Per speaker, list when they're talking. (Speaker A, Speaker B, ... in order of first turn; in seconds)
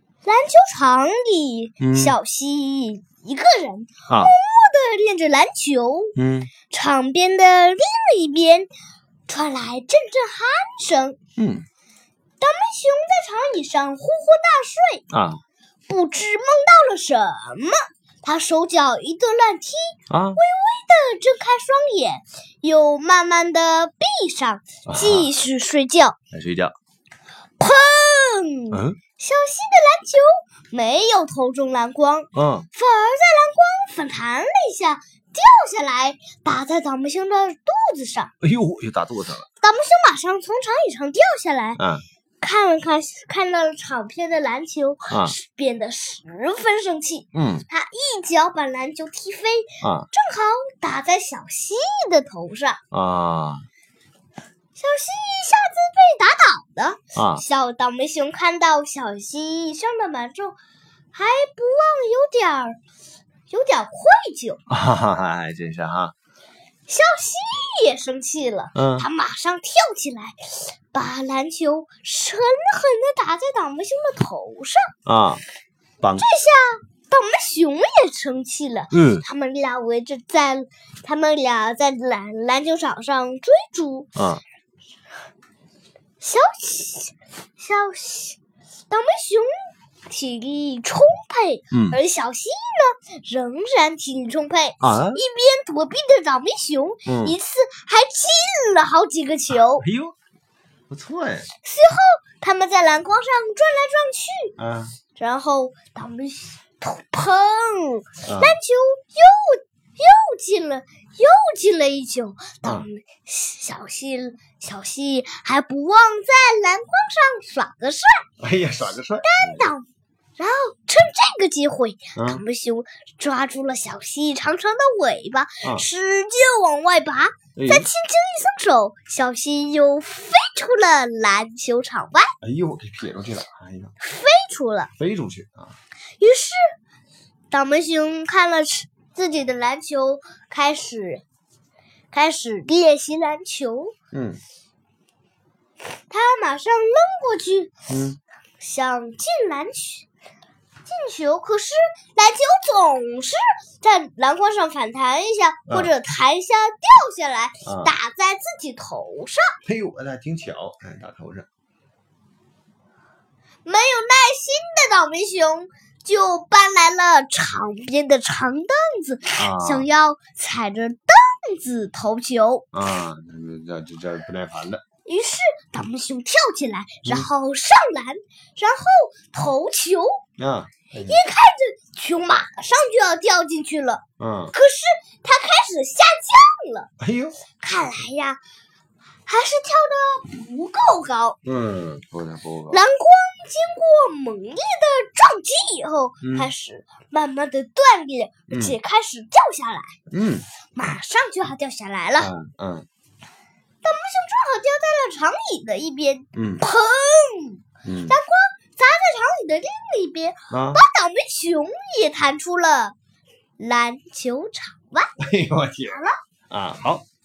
Speaker A: 0.2-6.1, 6.7-8.7, 9.3-11.2, 12.4-15.1, 15.9-26.2, 27.6-38.3, 39.6-41.8, 42.4-52.8, 54.8-60.6, 61.1-62.8, 63.5-64.6, 66.9-74.9, 76.2-84.1, 86.2-88.4, 88.9-89.5, 90.1-99.9, 101.6-104.5, 105.2-118.2, 119.2-119.9, 120.4-132.3, 134.0-134.9, 136.2-136.7, 137.5-141.2, 142.1-143.9, 146.1-147.7, 148.6-150.1, 150.8-159.5, 163.7-172.7, 175.1-180.2, 181.0-186.9, 187.6-188.4, 189.3-191.4, 192.7-200.0, 200.8-202.3, 203.8-212.9, 213.6-215.1
Speaker B: 1.8-2.2, 6.2-6.5, 11.4-11.7, 15.1-15.4, 20.1-20.4, 24.9-25.3, 26.3-26.8, 28.7-29.0, 32.3-32.7, 38.4-39.5, 41.8-42.0, 45.1-45.4, 47.3-47.7, 49.8-50.1, 52.9-53.7, 57.2-57.4, 64.7-66.1, 68.8-69.1, 75.1-75.4, 78.9-79.2, 84.2-84.4, 91.7-92.0, 94.8-95.2, 97.1-97.4, 99.8-100.2, 100.9-101.5, 104.6-104.9, 108.3-108.6, 118.4-119.7, 122.2-122.4, 127.6-127.9, 132.4-133.9, 135.0-135.8, 144.1-144.4, 147.9-148.2, 157.6-157.9, 159.6-161.5, 169.4-169.9, 172.7-174.8, 177.1-177.3, 180.4-181.2, 184.2-184.5, 187.0-187.4, 191.4-192.8, 196.2-196.5, 198.5-198.8, 200.1-200.5, 202.2-202.9, 206.3-206.6, 207.8-208.2, 210.5-210.8, 215.2-217.1